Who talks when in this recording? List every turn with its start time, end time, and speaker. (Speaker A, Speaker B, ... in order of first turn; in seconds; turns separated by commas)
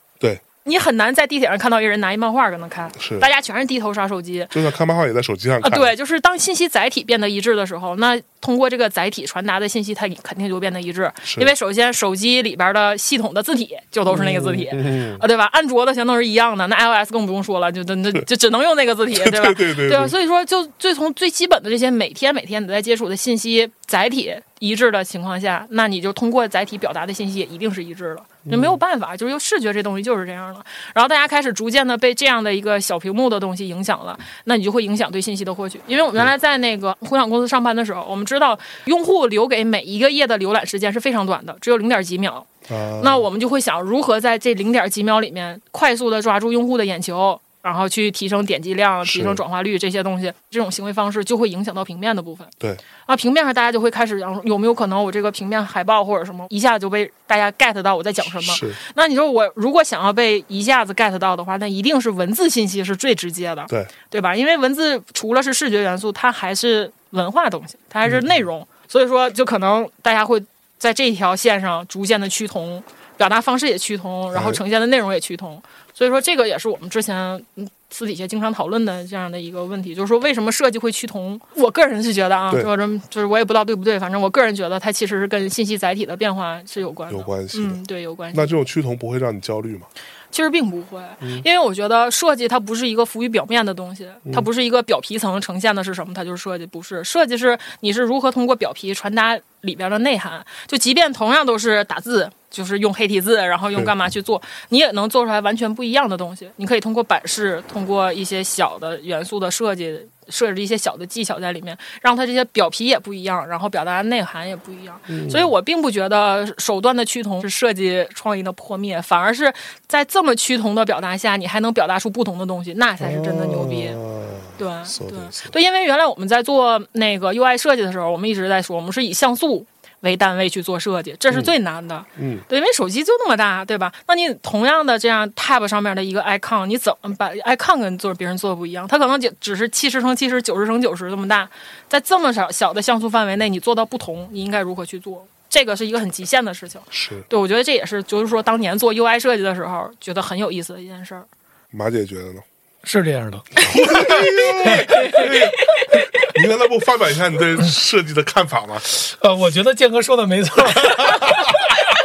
Speaker A: 0.7-4.6, Speaker B: 3.0-3.3, Speaker B: 4.5-5.9, Speaker A: 5.6-52.5, Speaker B: 11.3-11.5, Speaker B: 14.1-15.2, Speaker B: 19.1-20.1, Speaker B: 28.5-28.8, Speaker B: 42.7-43.3, Speaker B: 49.0-49.4, Speaker A: 53.0-88.5, Speaker B: 58.4-58.8, Speaker B: 74.3-74.6, Speaker B: 87.1-87.8, Speaker B: 88.3-89.9, Speaker A: 90.3-124.0, Speaker B: 115.1-115.5, Speaker B: 123.0-125.5, Speaker A: 124.6-151.3, Speaker B: 132.2-132.4, Speaker B: 146.9-147.3, Speaker B: 151.7-152.4, Speaker C: 152.8-155.2, Speaker B: 153.6-158.9, Speaker A: 154.6-155.9, Speaker C: 158.8-161.7, Speaker B: 160.8-161.7